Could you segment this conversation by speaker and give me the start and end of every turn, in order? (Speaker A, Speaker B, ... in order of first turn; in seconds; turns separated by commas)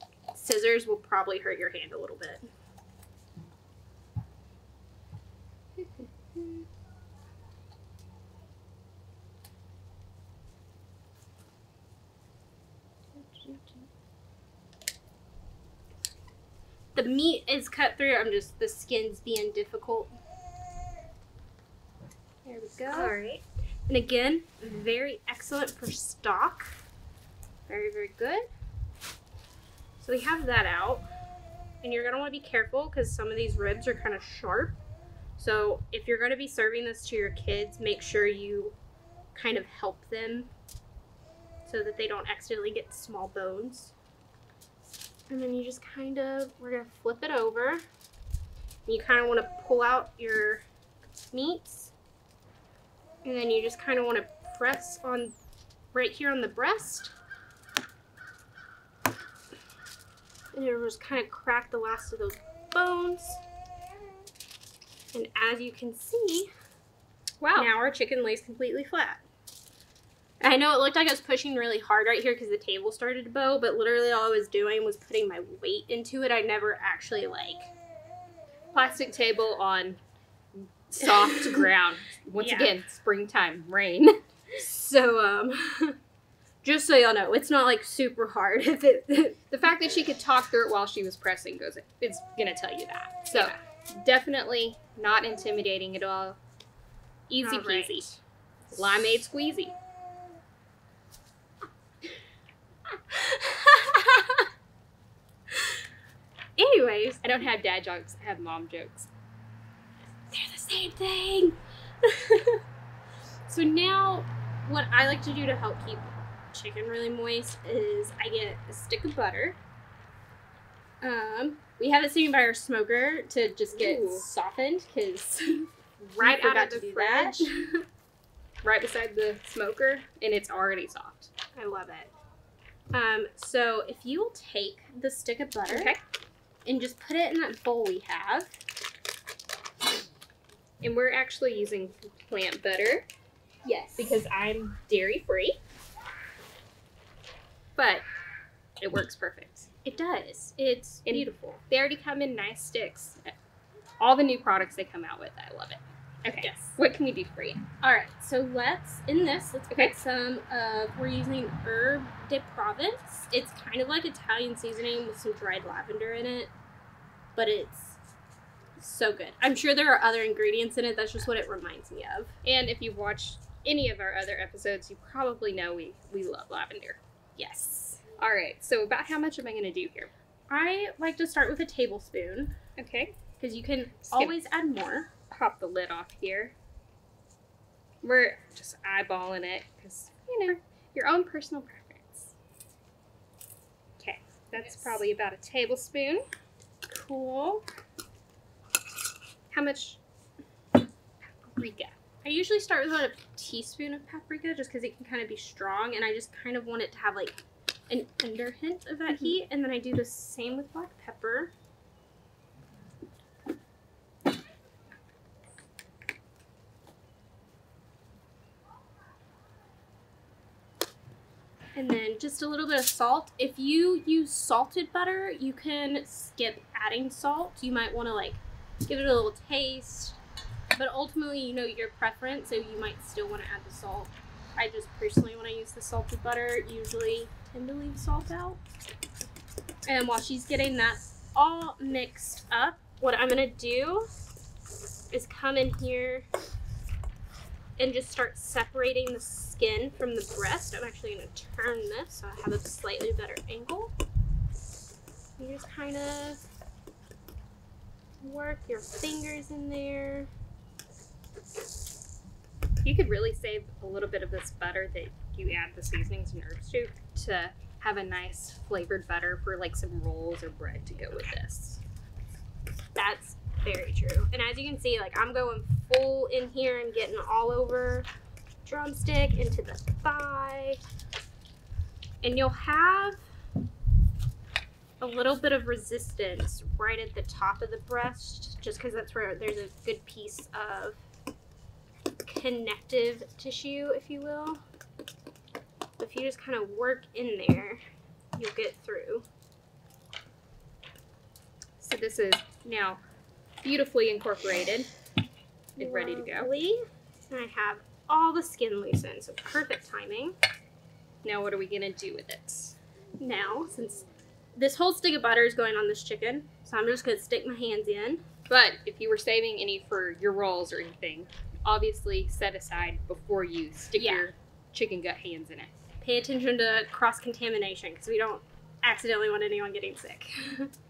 Speaker A: 0.3-2.5, Speaker B: 5.8-6.6, Speaker A: 16.9-20.1, Speaker A: 22.4-23.2, Speaker B: 22.9-23.4, Speaker A: 23.9-26.8, Speaker A: 27.7-28.5, Speaker A: 30.0-31.1, Speaker A: 31.8-34.8, Speaker A: 35.4-38.8, Speaker A: 39.3-40.5, Speaker A: 41.7-43.9, Speaker A: 45.3-47.9, Speaker A: 48.9-50.6, Speaker A: 51.3-51.9, Speaker A: 53.2-55.4, Speaker A: 55.9-57.1, Speaker A: 60.5-63.4, Speaker A: 65.1-66.5, Speaker B: 67.4-67.7, Speaker A: 67.5-69.2, Speaker A: 70.4-77.7, Speaker B: 78.7-80.0, Speaker B: 80.5-84.2, Speaker A: 81.0-81.7, Speaker A: 82.4-82.7, Speaker A: 84.5-86.0, Speaker A: 86.6-89.4, Speaker B: 89.5-96.4, Speaker A: 93.3-93.6, Speaker B: 97.3-98.1, Speaker A: 97.4-98.2, Speaker B: 98.7-99.8, Speaker A: 103.1-104.5, Speaker A: 105.5-105.8, Speaker A: 106.6-107.4, Speaker B: 107.2-109.1, Speaker A: 110.3-112.6, Speaker A: 113.5-119.6, Speaker A: 121.0-127.8, Speaker B: 123.7-124.2, Speaker B: 126.0-127.5, Speaker B: 128.6-131.3, Speaker A: 131.6-132.1, Speaker A: 132.9-135.9, Speaker B: 135.7-136.0, Speaker A: 136.7-138.5, Speaker B: 140.8-143.1, Speaker A: 143.6-144.2, Speaker B: 144.0-145.6, Speaker B: 147.8-148.1, Speaker B: 148.8-149.7, Speaker A: 149.8-151.6, Speaker B: 151.1-153.3, Speaker B: 154.0-157.7, Speaker A: 156.4-156.8, Speaker A: 157.8-166.5, Speaker A: 167.4-168.0, Speaker A: 168.8-172.4, Speaker B: 172.4-177.0, Speaker A: 177.4-178.0, Speaker B: 178.2-180.1, Speaker A: 180.5-182.6, Speaker B: 182.8-183.2, Speaker A: 183.4-185.1, Speaker B: 185.3-186.5, Speaker B: 188.0-192.3, Speaker B: 194.0-196.2, Speaker A: 194.6-194.9, Speaker A: 196.9-197.6, Speaker B: 199.5-200.0, Speaker B: 201.4-202.0, Speaker A: 202.2-211.5, Speaker A: 221.8-230.2, Speaker A: 230.8-238.6, Speaker A: 239.8-244.1, Speaker A: 245.1-246.3, Speaker A: 247.8-253.9, Speaker A: 255.4-256.4, Speaker A: 258.2-260.3, Speaker B: 262.8-271.8, Speaker A: 273.0-278.1, Speaker A: 278.6-280.8, Speaker A: 282.2-283.2, Speaker A: 285.0-291.0, Speaker A: 292.2-294.6, Speaker A: 296.0-297.8, Speaker A: 298.4-299.3, Speaker B: 301.8-303.0, Speaker B: 303.6-304.9, Speaker B: 305.8-306.5, Speaker A: 305.8-310.4, Speaker B: 311.2-312.8, Speaker A: 313.2-314.1, Speaker A: 314.6-318.2, Speaker B: 318.5-325.7, Speaker A: 324.0-324.3, Speaker A: 326.0-330.7